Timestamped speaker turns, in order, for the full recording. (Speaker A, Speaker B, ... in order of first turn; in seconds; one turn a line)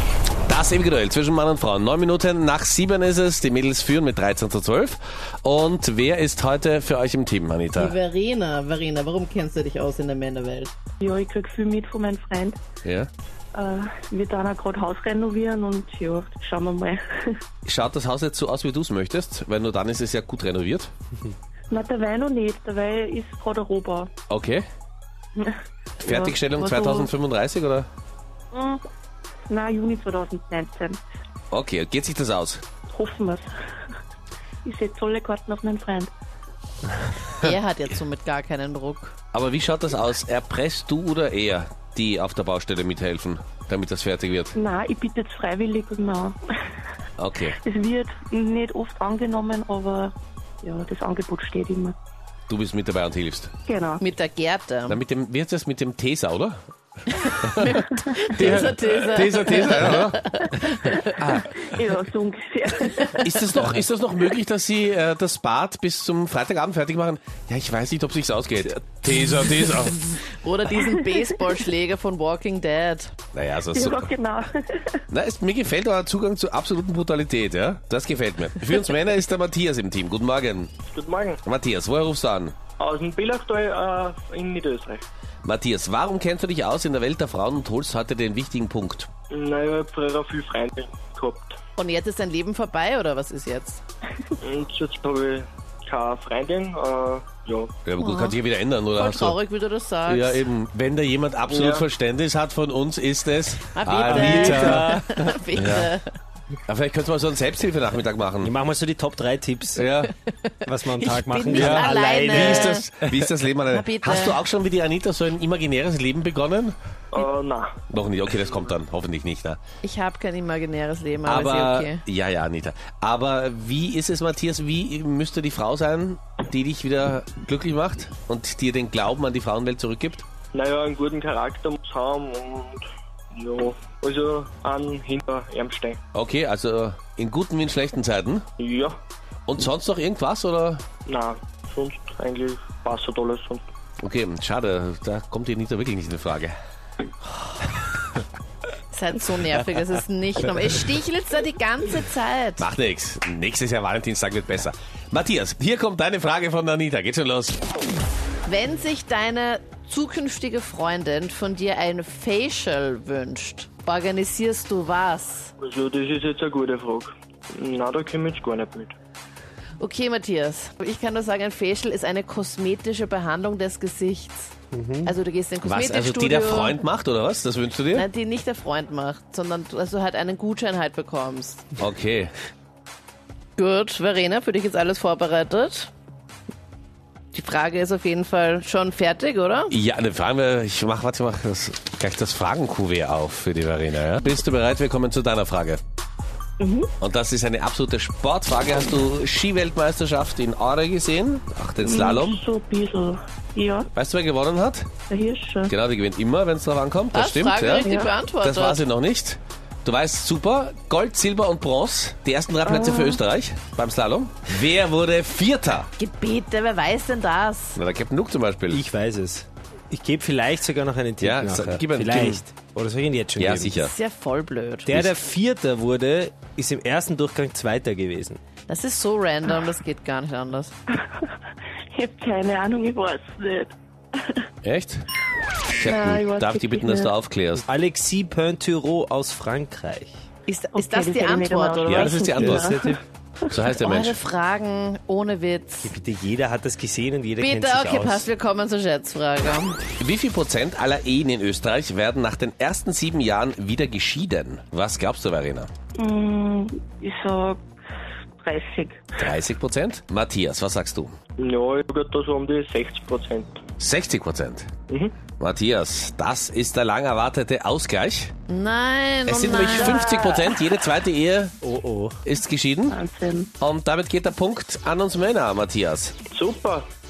Speaker A: 0.5-8.0
Speaker B: 7.8-10.7
Speaker C: 11.0-12.6
Speaker A: 12.8-13.1
Speaker C: 13.6-17.4
Speaker A: 17.6-20.9
Speaker C: 21.7-24.1
Speaker A: 24.3-24.6
Speaker C: 25.4-27.1
Speaker A: 26.0-27.9
Speaker C: 28.5-28.8
Speaker C: 29.5-31.0
Speaker A: 31.5-32.6
Speaker C: 32.9-33.5
Speaker C: 34.6-36.1
Speaker B: 37.4-39.1
Speaker A: 39.3-44.6
Speaker C: 44.6-46.4
Speaker A: 47.2-47.6
Speaker C: 47.6-52.0
Speaker A: 52.5-53.5
Speaker C: 53.7-54.0
Speaker B: 54.0-55.0
Speaker A: 54.9-56.6
Speaker B: 57.1-61.1
Speaker A: 57.4-60.2
Speaker A: 61.2-61.5
Speaker C: 61.2-63.3
Speaker A: 63.2-70.2
Speaker B: 70.1-73.2
Speaker A: 73.3-74.1
Speaker C: 73.7-75.0
Speaker A: 75.1-80.7
Speaker D: 80.9-81.4
Speaker A: 81.5-82.5
Speaker D: 82.8-85.0
Speaker A: 85.4-89.1
Speaker D: 89.3-91.5
Speaker B: 91.8-93.8
Speaker D: 94.4-97.7
Speaker A: 97.8-99.4
Speaker B: 98.0-98.4
Speaker B: 99.0-100.5
Speaker A: 100.1-105.0
Speaker D: 101.5-101.9
Speaker B: 103.7-106.1
Speaker E: 104.0-105.0
Speaker A: 105.6-105.9
Speaker A: 106.7-108.5
Speaker E: 108.4-109.8
Speaker A: 109.8-110.1
Speaker B: 110.4-112.9
Speaker E: 110.7-112.8
Speaker A: 111.5-116.8
Speaker B: 113.7-114.4
Speaker D: 117.1-117.7
Speaker A: 117.9-119.6
Speaker B: 119.8-122.0
Speaker A: 121.3-130.2
Speaker D: 130.5-136.0
Speaker A: 136.1-138.5
Speaker D: 138.6-139.0
Speaker A: 139.5-140.8
Speaker D: 141.1-143.7
Speaker A: 144.0-146.6
Speaker B: 148.9-152.7
Speaker A: 152.6-157.6
Speaker B: 158.4-165.5
Speaker D: 165.6-168.9
Speaker B: 169.8-176.8
Speaker E: 174.7-175.1
Speaker A: 175.6-178.1
Speaker B: 177.9-181.7
Speaker A: 181.8-182.3
Speaker B: 183.6-185.9
Speaker B: 187.3-189.8
Speaker A: 189.7-195.8
Speaker C: 196.6-196.9
Speaker A: 197.0-202.4
Speaker C: 201.8-203.9
Speaker A: 203.9-204.9
Speaker C: 205.1-205.7
Speaker A: 205.7-207.9
Speaker B: 207.1-208.8
Speaker C: 207.8-208.1
Speaker A: 208.4-215.9
Speaker C: 212.7-213.2
Speaker B: 216.0-217.8
Speaker A: 217.8-218.8
Speaker E: 218.7-223.7
Speaker A: 221.2-222.4
Speaker A: 223.4-223.9
Speaker B: 223.8-225.0
Speaker E: 224.9-228.4
Speaker B: 228.7-230.7
Speaker C: 231.9-234.4
Speaker A: 234.6-235.1
Speaker A: 235.8-237.7
Speaker C: 235.8-237.1
Speaker E: 237.7-240.2
Speaker B: 240.5-242.2
Speaker C: 240.7-243.0
Speaker A: 241.9-242.8
Speaker E: 242.4-243.0
Speaker A: 243.5-244.2
Speaker B: 243.8-246.0
Speaker E: 245.8-248.3
Speaker B: 247.4-249.8
Speaker A: 250.0-255.7
Speaker C: 256.0-257.6
Speaker C: 258.4-259.0
Speaker A: 259.2-261.2
Speaker D: 261.4-263.6
Speaker A: 263.8-264.7
Speaker D: 264.9-265.2
Speaker A: 265.4-268.3
Speaker B: 268.5-270.0
Speaker A: 269.3-271.6
Speaker C: 269.8-270.5
Speaker E: 271.6-272.2
Speaker A: 272.2-273.0
Speaker C: 272.9-273.5
Speaker A: 273.6-276.1
Speaker D: 276.3-276.9